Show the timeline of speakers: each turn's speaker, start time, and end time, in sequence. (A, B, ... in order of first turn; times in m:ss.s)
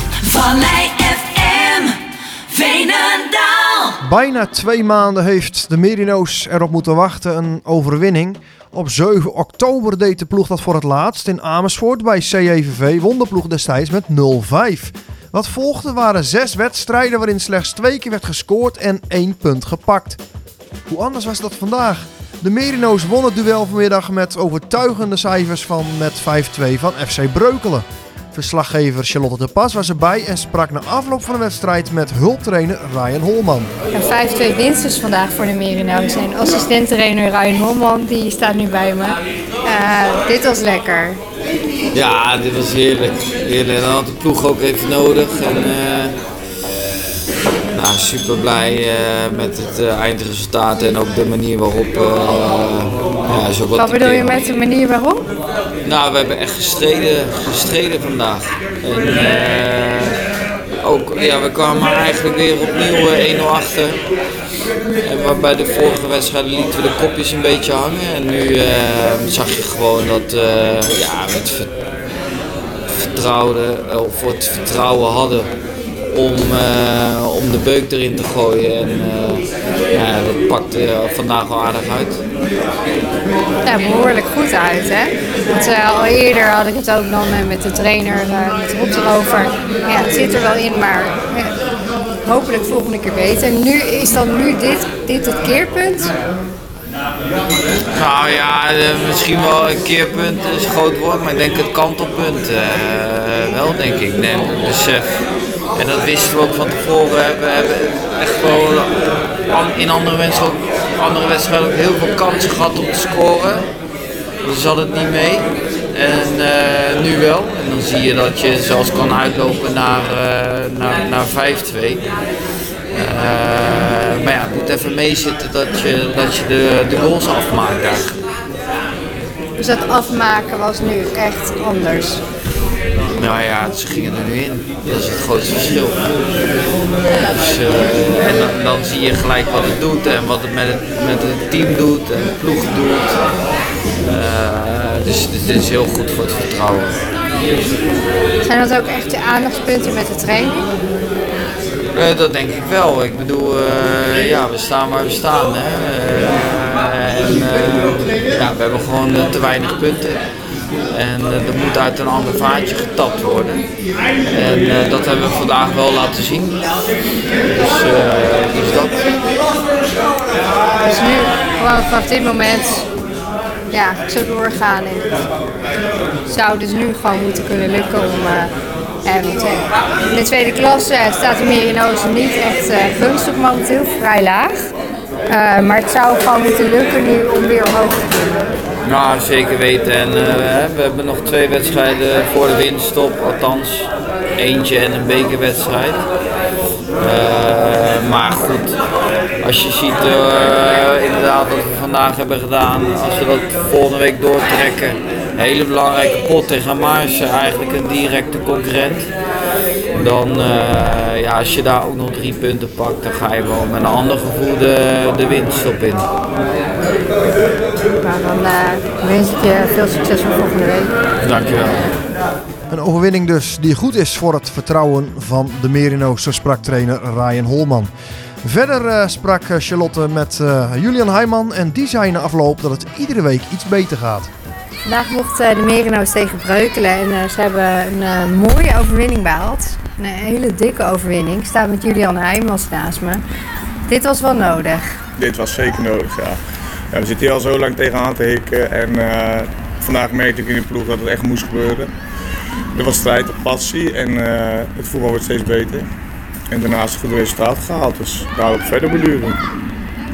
0:00.2-0:04.0 A
0:04.0-0:20.2 B
0:20.9-0:33.7 B
0:33.9-0:41.2 C
0:41.9-0:46.2 D
0:47.7-0:54.4 D
0:53.8-0:55.3 C
0:55.8-1:00.2 D
1:00.8-1:04.0 D
1:05.0-1:11.8 D
1:12.9-1:15.5 D
1:16.1-1:22.2 D
1:23.6-1:31.5 C
1:32.2-1:36.1 C
1:37.9-1:45.2 D
1:45.8-1:48.9 D
1:49.5-1:53.7 D
1:54.4-2:02.0 D
2:02.9-2:08.2 D
2:09.6-2:12.2 C
2:13.2-2:16.0 D
2:17.3-2:23.2 D
2:24.1-2:27.0 D
2:28.4-2:30.7 C
2:31.9-2:40.2 D
2:40.9-2:43.6 D
2:44.3-2:46.6 D
2:47.5-2:49.2 D
2:50.8-2:52.9 C
2:53.7-2:55.2 C
2:56.3-2:58.5 C
2:59.0-3:04.7 C
3:05.3-3:08.4 C
3:08.8-3:16.0 D
3:17.0-3:18.8 D
3:19.4-3:29.1 D
3:29.9-3:36.1 D
3:38.0-3:41.0 C
3:41.2-3:41.9 D
3:42.7-3:47.9 B
3:48.4-3:54.3 B
3:54.8-4:03.2 C
4:03.9-4:04.8 C
4:05.2-4:06.4 E
4:06.9-4:11.9 E
4:12.8-4:15.9 E
4:16.5-4:19.4 E